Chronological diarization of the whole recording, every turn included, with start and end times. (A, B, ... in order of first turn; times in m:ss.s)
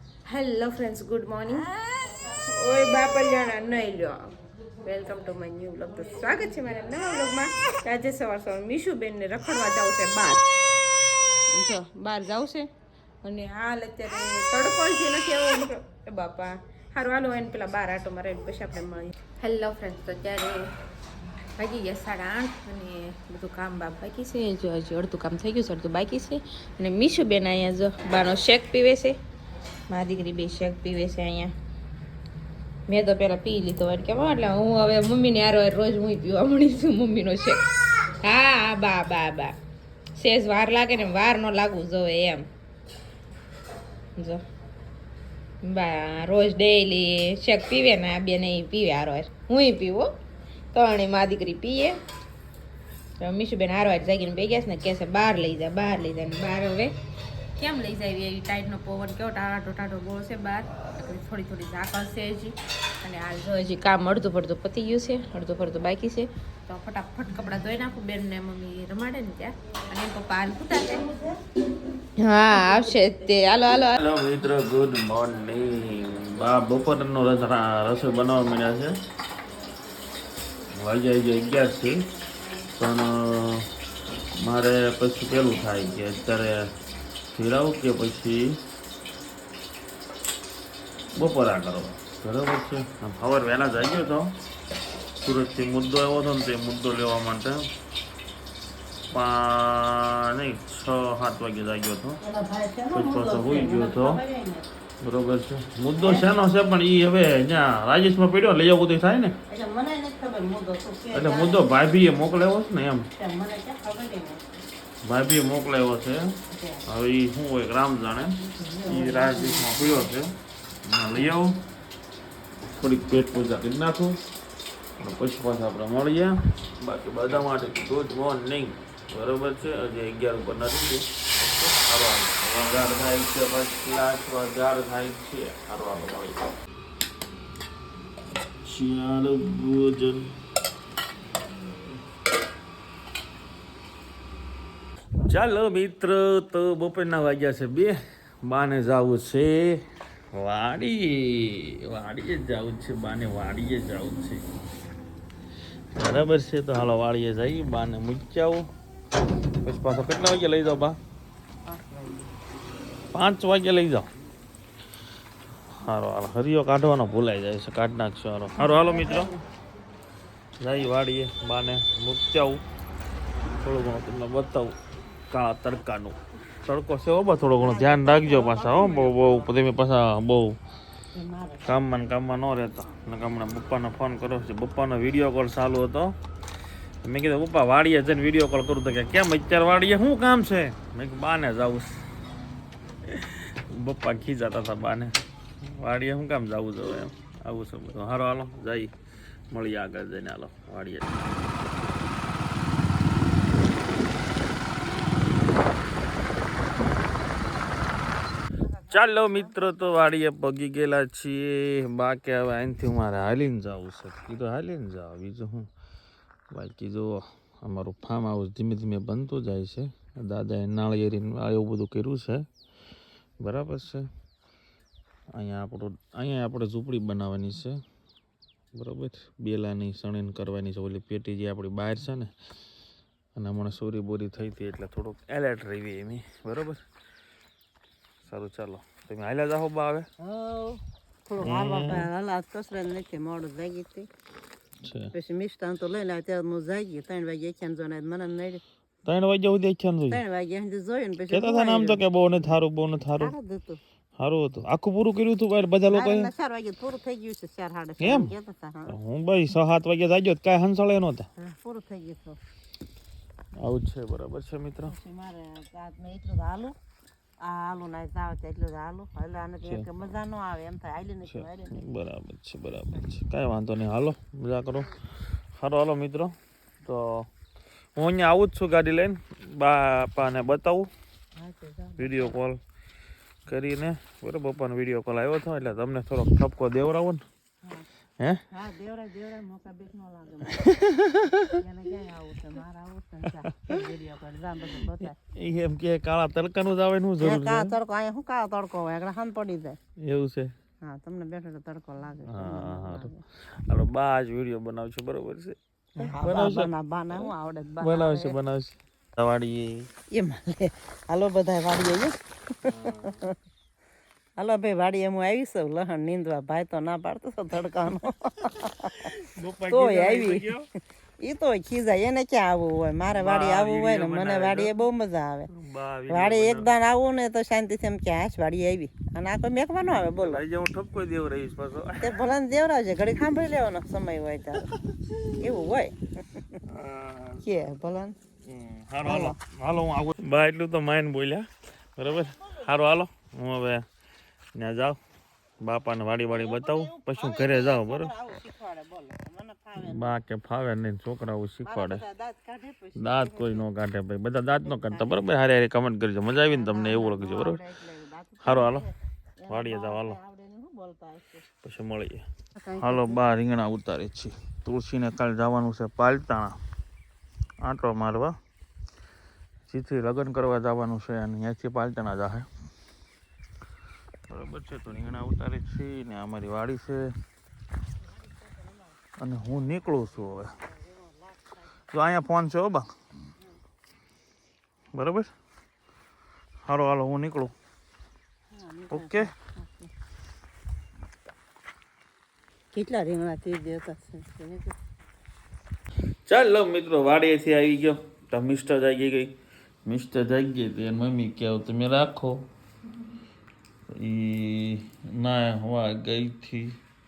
0:00.3-0:01.6 A
0:02.5-0:04.2 A
0:04.8-0:10.4 A
0:11.5-0:12.7 A
0:13.2-0:20.7 A
0:21.6-0:29.2 A
0:29.9-0:31.5 A
0:32.9-0:37.6 A
0:38.2-0:39.6 A
0:40.2-0:42.4 A
0:44.2-0:44.4 A
0:45.6-0:50.1 A
0:50.7-0:52.0 A
0:53.2-0:56.9 A
0:57.6-1:11.1 A
1:10.9-1:11.3 B
1:12.2-1:14.0 A
1:13.9-1:19.0 C
1:20.7-1:22.0 C
1:22.8-1:23.7 C
1:24.4-1:26.7 C
1:27.3-1:28.6 C
1:31.2-1:34.3 C
1:35.2-1:37.7 C
1:39.1-1:42.2 C
1:42.2-1:44.7 B
1:42.9-1:44.2 C
1:45.0-1:49.4 C
1:46.0-1:46.3 B
1:49.5-1:51.6 B
1:51.1-1:53.1 C
1:53.2-1:54.5 B
1:55.0-2:01.6 C
1:56.5-1:56.8 B
1:58.4-2:00.1 B
2:02.7-2:04.2 C
2:05.0-2:16.5 C
2:18.6-2:20.3 C
2:25.2-2:34.4 C
2:35.9-2:38.6 C
2:39.6-2:41.0 C
2:41.7-2:42.3 B
2:43.1-2:44.1 C
2:45.8-2:49.3 C
2:48.6-2:49.4 B
2:50.6-2:52.6 C
2:53.6-2:54.8 C
2:55.3-3:00.6 C
2:57.6-2:59.5 B
3:01.1-3:01.8 B
3:01.7-3:06.2 C
3:07.0-3:12.0 C
3:13.1-3:18.9 C
3:19.5-3:21.2 C
3:28.5-3:30.0 B
3:28.9-3:35.7 C
3:36.5-3:42.4 C
3:43.4-3:44.1 C
3:45.3-3:47.8 C
3:48.7-3:52.3 C
3:53.4-3:56.8 C
3:58.2-4:00.1 C
4:00.2-4:04.1 B
4:01.4-4:02.1 C
4:04.8-4:05.1 C
4:05.1-4:08.6 B
4:09.0-4:10.2 C
4:10.1-4:12.0 B
4:11.3-4:13.3 C
4:13.2-4:13.8 B
4:14.2-4:16.3 C
4:15.8-4:18.9 B
4:18.0-4:18.3 C
4:18.9-4:21.3 C
4:21.4-4:22.4 B
4:23.6-4:24.9 C
4:24.8-4:26.8 B
4:27.4-4:31.8 B
4:31.2-4:34.9 C
4:35.6-4:37.3 C
4:38.0-4:40.9 C
4:41.4-4:42.3 B
4:42.0-4:42.6 C
4:43.5-4:47.2 C
4:48.5-4:50.6 B
4:50.7-4:51.4 C
4:51.6-4:55.2 B
4:55.0-4:57.8 C
4:57.2-4:59.8 B
5:00.0-5:00.5 C
5:00.8-5:03.2 B
5:02.2-5:03.1 C
5:03.7-5:09.9 C
5:06.0-5:08.4 B
5:10.1-5:13.3 B
5:12.6-5:13.2 C
5:14.4-5:19.1 B
5:19.0-5:20.7 C
5:19.7-5:20.5 B
5:21.2-5:25.5 B
5:23.1-5:24.7 C
5:25.5-5:26.7 C
5:26.1-5:30.4 B
5:30.2-5:32.2 C
5:32.0-5:34.7 B
5:35.4-5:36.6 B
5:36.7-5:37.4 C
5:37.4-5:38.1 B
5:38.4-5:43.8 C
5:39.0-5:39.4 B
5:44.5-5:45.0 C
5:45.6-5:48.1 C
5:46.3-5:50.2 B
5:49.8-5:52.0 C
5:51.6-5:53.6 B
5:53.0-5:57.6 C
5:54.5-5:55.2 B
5:56.4-6:01.4 B
5:58.4-5:58.8 C
5:59.5-6:00.2 C
6:01.6-6:02.2 C
6:02.6-6:03.2 B
6:02.8-6:06.6 C
6:07.6-6:08.4 C
6:09.7-6:12.5 C
6:14.3-6:17.1 C
6:18.1-6:19.0 B
6:19.2-6:20.6 C
6:19.7-6:21.5 B
6:21.9-6:22.9 C
6:24.9-6:25.3 C
6:26.6-6:27.5 C
6:28.5-6:29.9 B
6:28.9-6:29.3 C
6:32.7-6:34.8 B
6:36.2-6:39.3 C
6:39.8-6:42.5 C
6:43.9-6:46.8 C